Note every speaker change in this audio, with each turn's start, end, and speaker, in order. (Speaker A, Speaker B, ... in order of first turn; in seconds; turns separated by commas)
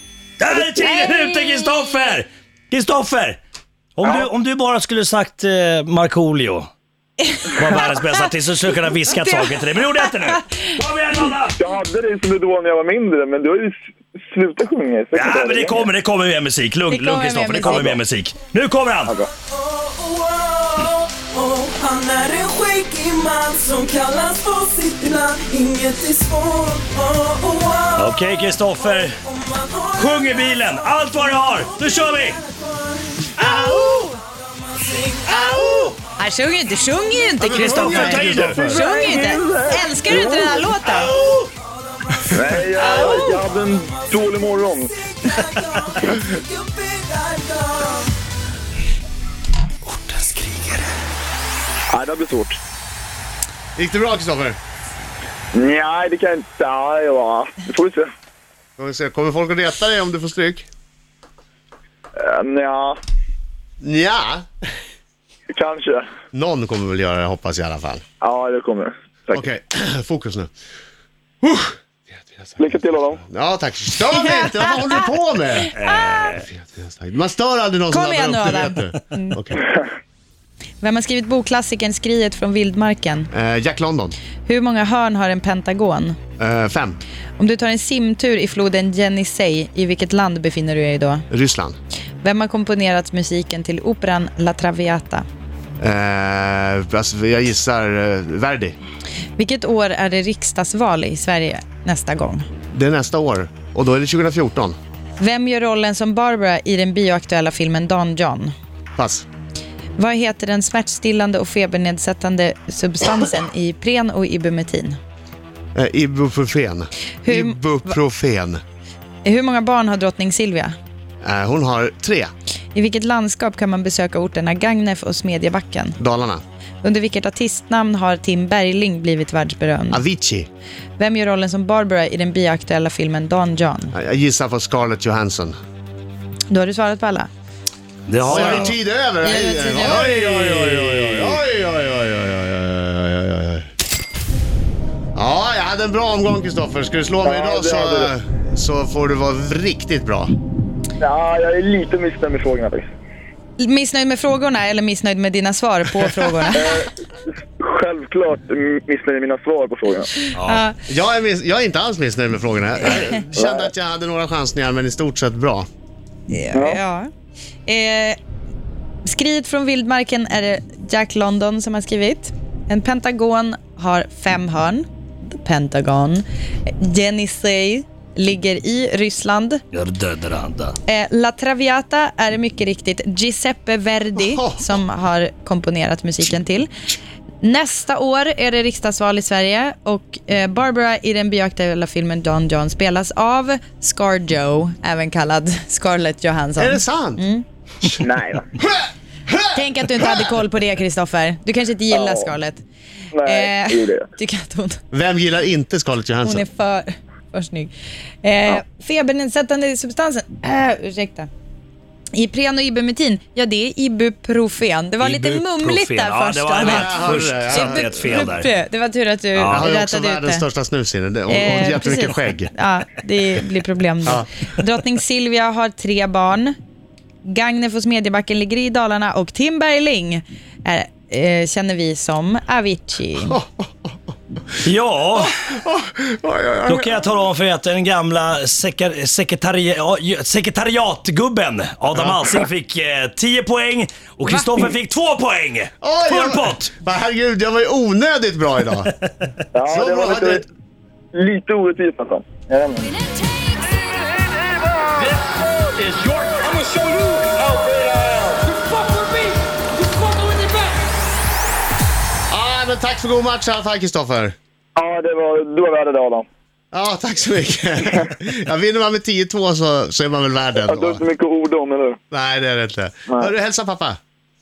Speaker A: 0.4-3.4, Speaker A: 4.0-6.7, Speaker B: 4.0-4.3, Speaker A: 7.5-11.6, Speaker B: 11.6-15.9, Speaker A: 15.1-19.2, Speaker C: 16.9-18.0, Speaker B: 17.7-17.9, Speaker D: 19.5-28.0, Speaker A: 27.9-29.2, Speaker D: 28.9-33.3, Speaker A: 29.9-32.4, Speaker A: 33.4-34.1, Speaker D: 34.4-35.8, Speaker A: 35.3-36.0, Speaker C: 36.2-41.1, Speaker E: 37.4-38.8, Speaker A: 37.4-38.7, Speaker B: 38.0-40.8, Speaker A: 40.9-41.5, Speaker B: 42.3-44.9, Speaker D: 42.7-48.1, Speaker A: 49.9-50.9, Speaker B: 51.9-52.6, Speaker E: 53.8-54.6, Speaker B: 55.5-58.1, Speaker E: 58.8-60.7, Speaker B: 62.2-63.0, Speaker E: 63.8-64.5, Speaker B: 65.5-66.1, Speaker E: 66.3-68.0, Speaker B: 68.2-69.5, Speaker E: 69.3-70.5, Speaker E: 71.4-72.6, Speaker B: 72.6-73.2, Speaker E: 73.2-75.7, Speaker C: 74.4-74.7, Speaker A: 75.7-76.5, Speaker C: 75.8-76.4, Speaker E: 76.4-79.6, Speaker C: 77.9-79.4, Speaker C: 80.8-83.3, Speaker E: 83.3-84.2, Speaker C: 84.5-86.2, Speaker E: 86.4-87.0, Speaker C: 87.4-91.2, Speaker E: 91.3-91.8, Speaker C: 92.2-95.2, Speaker E: 95.8-98.8, Speaker C: 99.4-102.5, Speaker E: 102.7-104.8, Speaker C: 105.2-108.5, Speaker E: 109.0-109.3, Speaker C: 110.0-115.0, Speaker E: 115.8-118.6, Speaker C: 117.2-118.0, Speaker C: 119.2-120.7, Speaker E: 121.2-122.3, Speaker C: 122.7-126.0, Speaker E: 126.0-126.4, Speaker C: 126.8-130.0, Speaker E: 129.9-130.5, Speaker C: 131.0-133.9, Speaker E: 133.9-135.6, Speaker C: 136.5-137.3, Speaker A: 138.1-138.8, Speaker E: 138.2-143.7, Speaker C: 138.3-138.7, Speaker C: 139.2-140.1, Speaker A: 139.7-141.4, Speaker E: 145.2-150.3, Speaker B: 147.2-148.1, Speaker B: 151.0-152.9, Speaker C: 153.6-156.7, Speaker B: 156.5-156.9, Speaker B: 157.6-160.1, Speaker C: 160.2-160.8, Speaker A: 160.3-160.7, Speaker E: 160.9-165.7, Speaker B: 163.3-163.7, Speaker C: 166.3-167.1, Speaker B: 166.5-166.8, Speaker C: 167.7-168.2, Speaker C: 169.1-176.2, Speaker C: 176.8-179.6, Speaker A: 179.7-180.8, Speaker C: 180.9-186.7, Speaker E: 184.2-184.6, Speaker C: 187.4-197.4, Speaker E: 196.6-197.2, Speaker B: 198.0-198.5, Speaker E: 198.7-200.3, Speaker C: 199.5-202.6, Speaker B: 201.9-202.3, Speaker B: 203.1-204.1, Speaker C: 203.2-204.8, Speaker E: 204.9-206.4, Speaker C: 206.2-211.3, Speaker C: 212.2-220.5, Speaker A: 215.0-218.5, Speaker E: 216.6-217.9, Speaker A: 219.4-219.7, Speaker E: 219.5-222.5, Speaker C: 221.3-226.6, Speaker C: 227.2-233.4, Speaker E: 233.2-233.9, Speaker A: 234.6-235.3, Speaker E: 235.2-237.0, Speaker A: 236.7-246.7, Speaker E: 241.9-242.5, Speaker E: 245.8-248.9, Speaker A: 248.8-249.1, Speaker B: 249.5-250.4, Speaker E: 249.7-250.5, Speaker B: 251.1-253.0, Speaker A: 255.8-256.5, Speaker E: 262.3-264.4, Speaker B: 264.8-266.3, Speaker E: 266.7-271.0, Speaker B: 270.6-272.0, Speaker E: 272.1-274.0